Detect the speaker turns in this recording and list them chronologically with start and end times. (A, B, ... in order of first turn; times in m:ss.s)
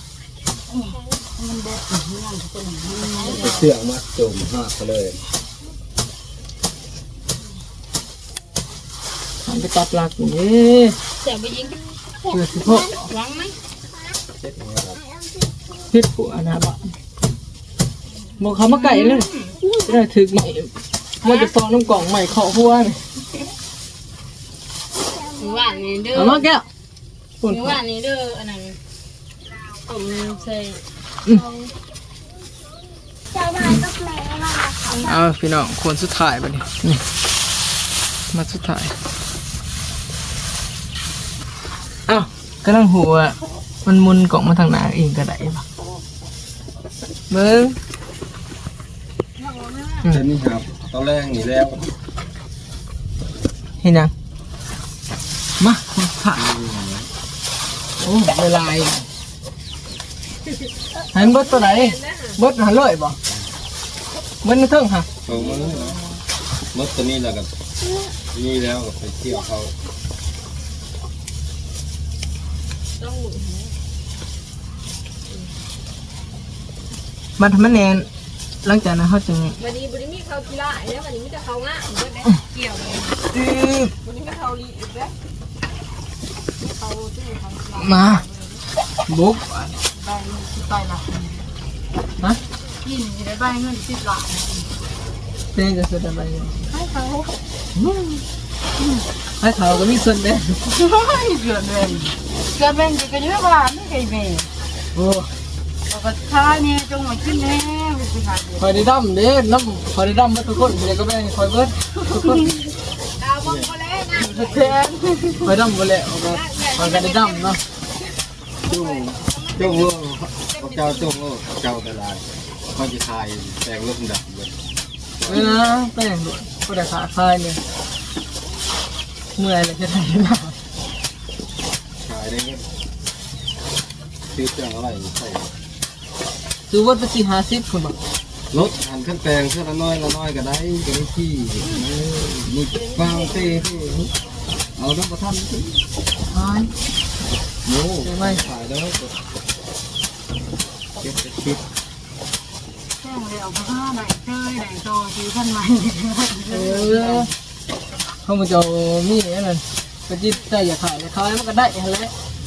0:00.7-0:03.7 A
0:03.3-0:05.2 B
0:09.4-0:11.0 C
0:11.2-0:11.8 D
0:12.3-0:13.0 C
0:12.9-0:13.5 D
0:14.3-0:15.0 B
0:15.9-0:16.8 C
0:18.4-0:19.3 C
0:18.8-0:19.8 D
0:19.8-0:20.7 C
0:21.2-0:23.0 C
0:25.3-0:26.4 D
0:26.1-0:26.6 C
0:27.4-0:27.8 C
0:27.4-0:28.8 D
0:29.8-0:31.7 D
0:33.6-0:33.9 C
0:34.9-0:35.1 D
0:35.0-0:37.0 C
0:38.3-0:38.9 C
0:42.1-0:45.6 C
0:47.3-0:47.8 C
0:49.4-0:50.0 A
0:50.1-0:51.9 B
0:53.8-0:54.1 C
0:55.6-0:56.4 C
0:56.4-0:57.1 B
0:58.0-0:59.0 C
1:01.1-1:03.2 C
1:01.5-1:02.2 E
1:04.4-1:05.1 C
1:05.2-1:06.0 B
1:06.7-1:07.5 B
1:08.3-1:09.7 B
1:13.0-1:13.6 E
1:17.4-1:18.1 C
1:18.6-1:19.6 C
1:19.6-1:23.1 E
1:23.3-1:23.9 C
1:24.0-1:25.1 E
1:26.6-1:28.5 A
1:27.0-1:27.7 E
1:27.8-1:28.2 C
1:29.1-1:29.8 C
1:29.9-1:31.4 A
1:32.8-1:34.7 A
1:35.5-1:36.5 C
1:36.7-1:37.2 A
1:39.4-1:40.6 C
1:40.7-1:44.5 A
1:44.9-1:45.3 C
1:45.9-1:48.8 A
1:48.6-1:52.5 C
1:52.1-1:52.5 A
1:53.3-1:53.6 E
1:53.4-1:54.5 B
1:54.1-1:57.6 C
1:54.3-1:55.2 E
1:58.6-2:04.5 B
2:00.7-2:00.9 E
2:05.2-2:05.6 B
2:05.3-2:07.6 C
2:09.4-2:10.6 C
2:12.0-2:12.7 B
2:14.3-2:15.5 B
2:16.7-2:18.0 C
2:18.5-2:24.1 B
2:24.8-2:25.8 B
2:26.3-2:26.7 C
2:27.6-2:29.2 B
2:28.0-2:28.4 C
2:31.0-2:31.6 B
2:33.0-2:37.3 A
2:36.5-2:37.3 C
2:38.2-2:42.1 C